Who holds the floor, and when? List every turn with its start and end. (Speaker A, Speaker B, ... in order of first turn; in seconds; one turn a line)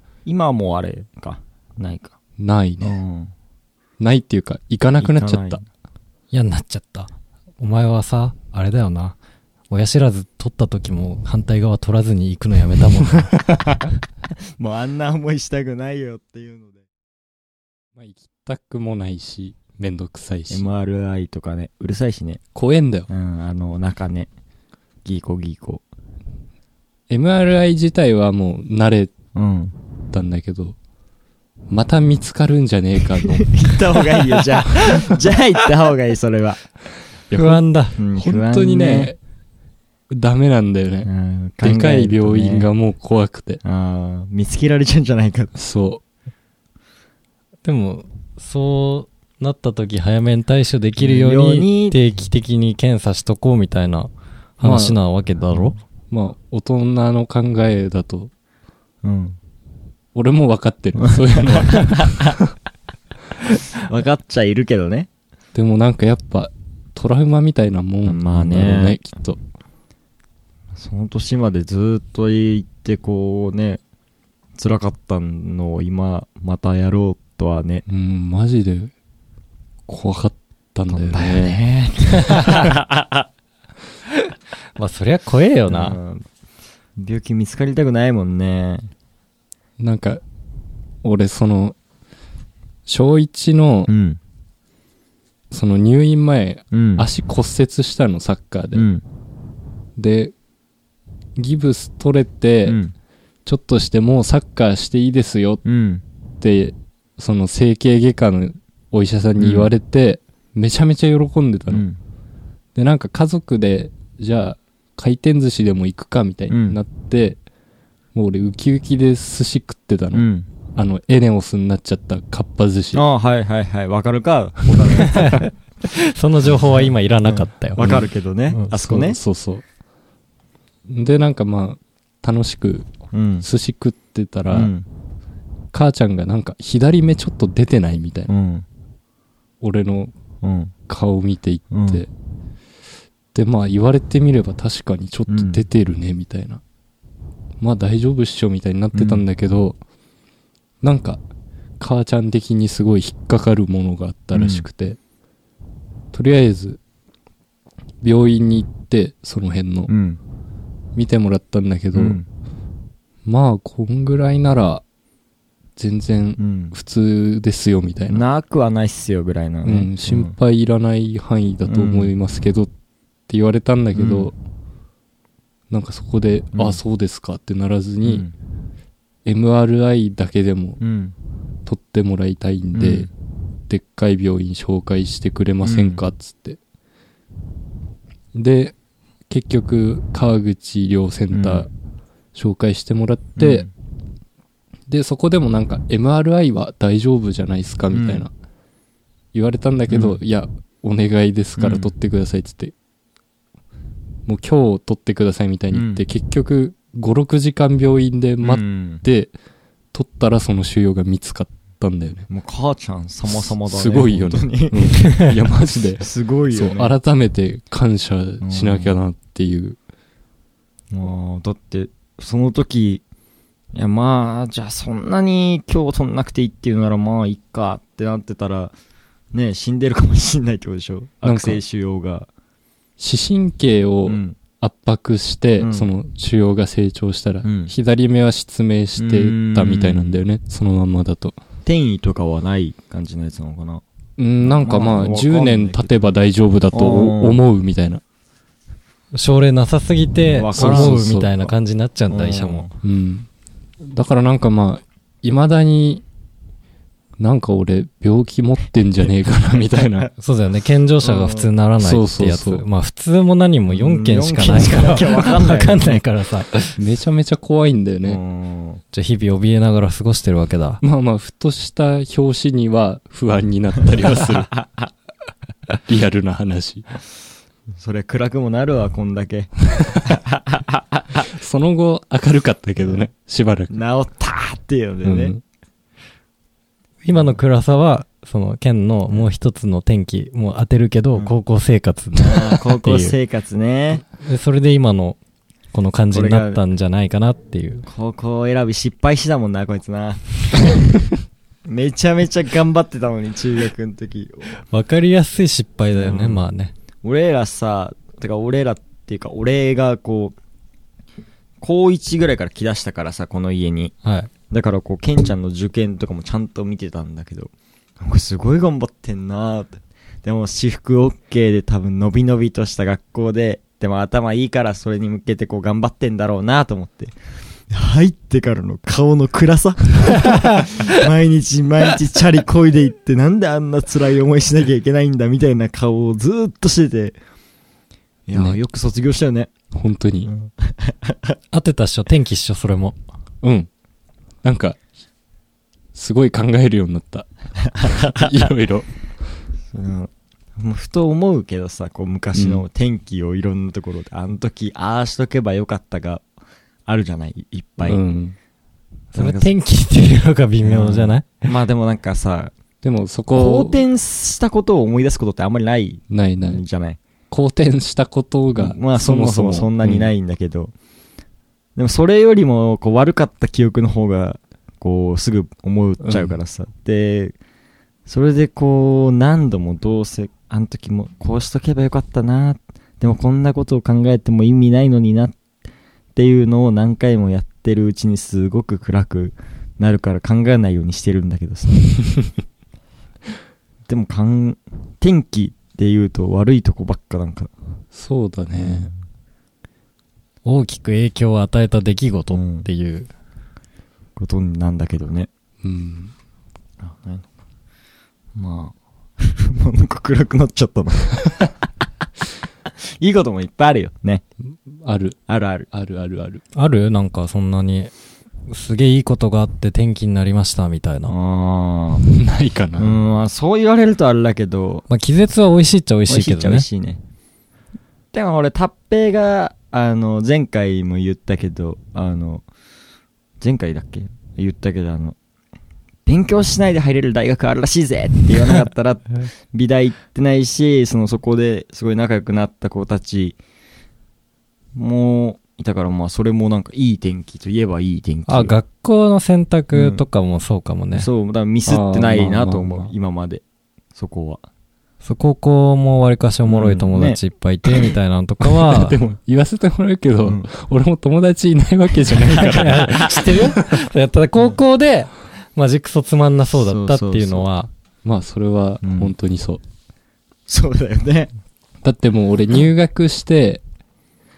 Speaker A: 0.2-2.2
Speaker B: 2.4-3.0
Speaker A: 2.8-3.3
Speaker B: 4.0-5.6
Speaker A: 5.0-5.7
Speaker C: 6.3-9.2
Speaker C: 9.7-13.8
Speaker A: 14.6-16.8
Speaker B: 18.0-20.7
Speaker A: 20.5-22.4
Speaker B: 22.6-23.1
Speaker A: 23.1-24.3
Speaker A: 25.1-25.8
Speaker B: 27.1-29.1
Speaker A: 29.3-29.7
Speaker B: 30.1-30.8
Speaker B: 31.7-33.5
Speaker A: 33.2-36.7
Speaker A: 37.3-39.1
Speaker C: 37.3-38.0
Speaker B: 38.1-39.2
Speaker B: 40.1-41.1
Speaker A: 41.0-42.7
Speaker B: 41.6-43.6
Speaker A: 43.6-45.5
Speaker B: 45.5-46.0
Speaker C: 47.6-55.8
Speaker A: 51.0-52.0
Speaker B: 54.6-55.0
Speaker B: 56.1-58.3
Speaker A: 59.0-59.4
Speaker B: 60.1-62.5
Speaker A: 61.0-62.4
Speaker A: 63.5-65.1
Speaker B: 65.5-69.4
Speaker A: 68.0-69.0
Speaker A: 70.8-73.8
Speaker A: 74.6-77.8
Speaker B: 77.9-78.9
Speaker B: 79.9-81.6
Speaker A: 80.9-83.3
Speaker C: 84.1-86.0
Speaker A: 85.7-86.3
Speaker A: 87.0-88.9
Speaker B: 89.8-90.2
Speaker B: 91.0-91.8
Speaker B: 92.9-93.9
Speaker A: 93.9-94.2
Speaker B: 95.5-98.9
Speaker A: 96.7-97.1
Speaker A: 98.7-99.0
Speaker B: 100.0-100.3
Speaker B: 101.4-102.8
Speaker A: 102.7-102.9
Speaker B: 103.5-105.6
Speaker A: 105.6-106.0
Speaker B: 106.4-111.8
Speaker A: 109.4-109.7
Speaker A: 111.7-112.0
Speaker B: 112.8-117.4
Speaker A: 116.5-116.8
Speaker B: 118.1-123.0
Speaker A: 120.1-120.5
Speaker A: 122.9-125.5
Speaker C: 125.0-127.9
Speaker A: 126.7-129.2
Speaker C: 128.5-128.9
Speaker B: 128.9-129.6
Speaker B: 130.9-132.9
Speaker A: 133.1-133.5
Speaker B: 133.4-134.7
Speaker A: 134.5-134.9
Speaker B: 135.7-138.3
Speaker A: 138.3-138.7
Speaker B: 139.6-140.1
Speaker A: 140.4-140.7
Speaker B: 140.9-142.1
Speaker A: 141.7-142.0
Speaker B: 143.3-146.6
Speaker A: 145.3-145.6
Speaker B: 147.6-149.8
Speaker A: 148.9-149.2
Speaker B: 150.8-151.2
Speaker B: 151.8-155.0
Speaker A: 154.3-154.7
Speaker B: 156.1-156.8
Speaker B: 158.0-159.9
Speaker A: 159.9-160.2
Speaker B: 160.9-162.2
Speaker A: 161.9-162.3
Speaker B: 163.2-164.8
Speaker B: 165.8-168.2
Speaker A: 166.4-166.8
Speaker A: 168.1-170.3
Speaker B: 169.7-172.7
Speaker A: 171.7-172.1
Speaker B: 173.3-174.3
Speaker A: 173.9-174.3
Speaker B: 175.7-178.3
Speaker A: 176.5-176.8
Speaker A: 178.0-178.3
Speaker B: 179.2-180.8
Speaker A: 180.8-181.1
Speaker B: 181.7-183.1
Speaker A: 182.8-183.1
Speaker B: 183.7-186.6
Speaker A: 185.6-186.0
Speaker B: 188.3-188.8
Speaker B: 189.3-191.7
Speaker A: 191.3-191.7
Speaker B: 192.3-193.7
Speaker A: 193.4-193.7
Speaker B: 194.9-198.3
Speaker A: 197.9-198.2
Speaker B: 199.3-202.7
Speaker A: 199.9-200.2
Speaker A: 201.6-201.9
Speaker B: 204.3-209.3
Speaker A: 205.7-206.0
Speaker A: 208.4-209.0
Speaker B: 209.9-212.3
Speaker A: 212.3-215.3
Speaker B: 213.3-219.8
Speaker A: 216.0-216.9
Speaker A: 218.4-218.9
Speaker A: 220.9-223.0
Speaker A: 223.7-228.7
Speaker A: 229.3-232.3
Speaker B: 231.2-231.6
Speaker B: 233.0-241.4
Speaker A: 234.1-234.4
Speaker A: 235.6-235.9
Speaker A: 237.4-237.7
Speaker A: 239.0-240.2
Speaker A: 241.7-243.8
Speaker B: 244.2-248.0
Speaker A: 244.4-246.1
Speaker A: 246.7-247.4
Speaker C: 249.1-252.7
Speaker A: 250.3-251.5
Speaker B: 250.6-251.3
Speaker A: 252.1-252.8
Speaker B: 252.8-253.3
Speaker B: 253.8-256.0
Speaker B: 257.2-260.1
Speaker C: 260.2-266.8
Speaker A: 261.0-261.5
Speaker B: 261.8-262.6
Speaker A: 263.7-266.0
Speaker B: 266.8-268.2
Speaker A: 268.1-268.8
Speaker C: 268.9-270.8
Speaker B: 270.8-274.5
Speaker A: 273.9-274.9
Speaker B: 275.9-276.9
Speaker A: 277.8-281.3
Speaker B: 281.3-283.8
Speaker A: 282.8-283.0
Speaker A: 283.7-285.4
Speaker B: 285.0-285.4
Speaker C: 287.0-293.1
Speaker A: 287.1-287.4
Speaker A: 292.2-294.0
Speaker C: 294.2-295.2
Speaker C: 295.7-297.9
Speaker A: 296.1-296.6
Speaker A: 297.9-300.8
Speaker A: 301.7-304.6
Speaker C: 304.7-306.7
Speaker A: 306.0-306.4
Speaker A: 307.0-310.4
Speaker A: 311.6-313.9
Speaker C: 314.0-314.3
Speaker A: 314.5-327.1
Speaker A: 327.7-337.1
Speaker A: 338.3-339.5
Speaker B: 338.3-338.6
Speaker B: 339.7-340.3
Speaker A: 340.2-341.4
Speaker C: 341.5-343.0
Speaker B: 343.4-343.7
Speaker B: 344.4-344.8
Speaker B: 345.9-348.9
Speaker A: 347.8-348.3
Speaker A: 349.7-356.2
Speaker B: 352.4-352.6
Speaker A: 356.9-358.0
Speaker B: 357.8-358.4
Speaker C: 359.1-361.5
Speaker A: 359.1-359.5
Speaker A: 360.6-362.5
Speaker B: 362.8-363.8
Speaker A: 363.3-367.0
Speaker B: 366.1-366.6
Speaker B: 367.3-370.1
Speaker A: 368.6-370.7
Speaker A: 371.8-377.4
Speaker B: 376.0-376.4
Speaker A: 378.1-385.4
Speaker A: 386.1-391.8
Speaker A: 393.9-397.5
Speaker B: 397.9-398.9
Speaker A: 398.6-398.9
Speaker C: 400.4-403.1
Speaker A: 402.3-402.7
Speaker A: 404.2-405.3
Speaker B: 405.6-406.1
Speaker A: 406.8-407.3
Speaker A: 408.4-411.5
Speaker A: 413.0-414.2
Speaker B: 414.5-415.2
Speaker A: 415.3-415.7
Speaker B: 415.7-416.4
Speaker C: 416.6-417.9
Speaker C: 418.5-421.2
Speaker A: 421.1-422.0
Speaker B: 422.0-423.0
Speaker A: 422.8-424.9
Speaker C: 424.9-426.7
Speaker A: 426.1-427.0
Speaker A: 428.1-432.4
Speaker A: 433.4-435.2
Speaker A: 436.1-443.4
Speaker A: 444.8-448.6
Speaker C: 448.3-451.1
Speaker A: 449.7-450.0
Speaker A: 450.9-453.4
Speaker B: 451.7-452.9
Speaker A: 453.9-454.4
Speaker C: 455.0-459.0
Speaker A: 456.5-457.2
Speaker B: 458.6-463.6
Speaker A: 460.2-460.5
Speaker A: 462.3-463.4
Speaker C: 462.4-467.7
Speaker A: 466.5-467.5
Speaker B: 468.0-469.6
Speaker A: 468.8-469.1
Speaker A: 470.5-471.3
Speaker B: 471.8-473.6